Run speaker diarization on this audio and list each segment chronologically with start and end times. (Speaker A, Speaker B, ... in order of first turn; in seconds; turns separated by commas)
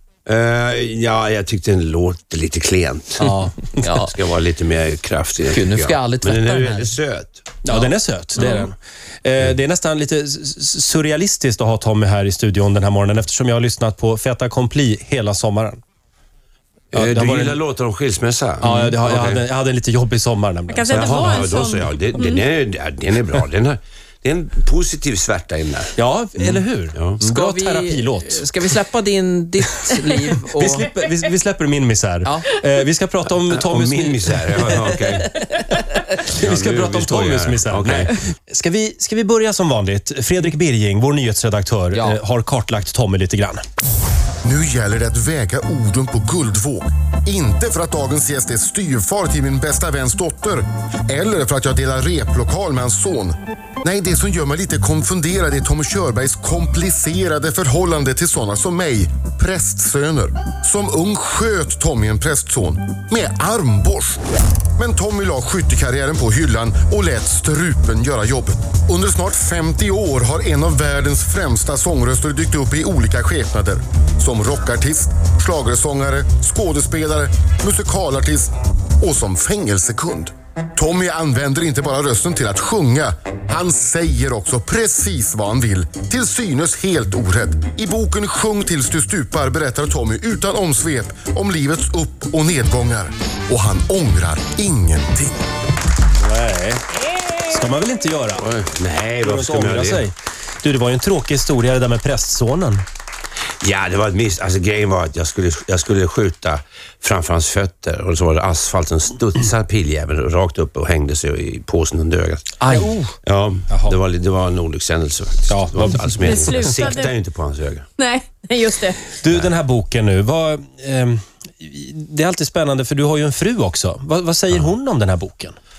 Speaker A: 0.2-7.6, Speaker B: 3.2-3.7, Speaker C: 3.8-4.2, Speaker C: 5.4-6.9, Speaker B: 7.6-15.8, Speaker A: 16.9-19.4, Speaker B: 16.9-17.6, Speaker B: 18.6-21.5, Speaker D: 20.7-22.4, Speaker A: 20.9-27.2, Speaker B: 25.9-28.7, Speaker C: 27.3-30.9, Speaker B: 30.5-35.2, Speaker C: 32.2-32.5, Speaker A: 33.5-35.3, Speaker C: 35.4-36.0, Speaker B: 36.2-43.6, Speaker A: 36.3-38.1, Speaker C: 41.9-42.2, Speaker E: 44.4-64.2, Speaker E: 64.8-95.4, Speaker B: 96.2-96.8, Speaker B: 97.4-98.5, Speaker A: 98.4-100.0, Speaker B: 99.2-102.8, Speaker A: 103.6-112.6, Speaker C: 112.6-113.1, Speaker B: 112.6-113.0, Speaker A: 113.2-117.8, Speaker B: 113.7-113.9, Speaker B: 115.5-116.8, Speaker D: 116.2-117.1, Speaker D: 118.0-119.1, Speaker B: 119.2-125.5, Speaker A: 119.3-119.5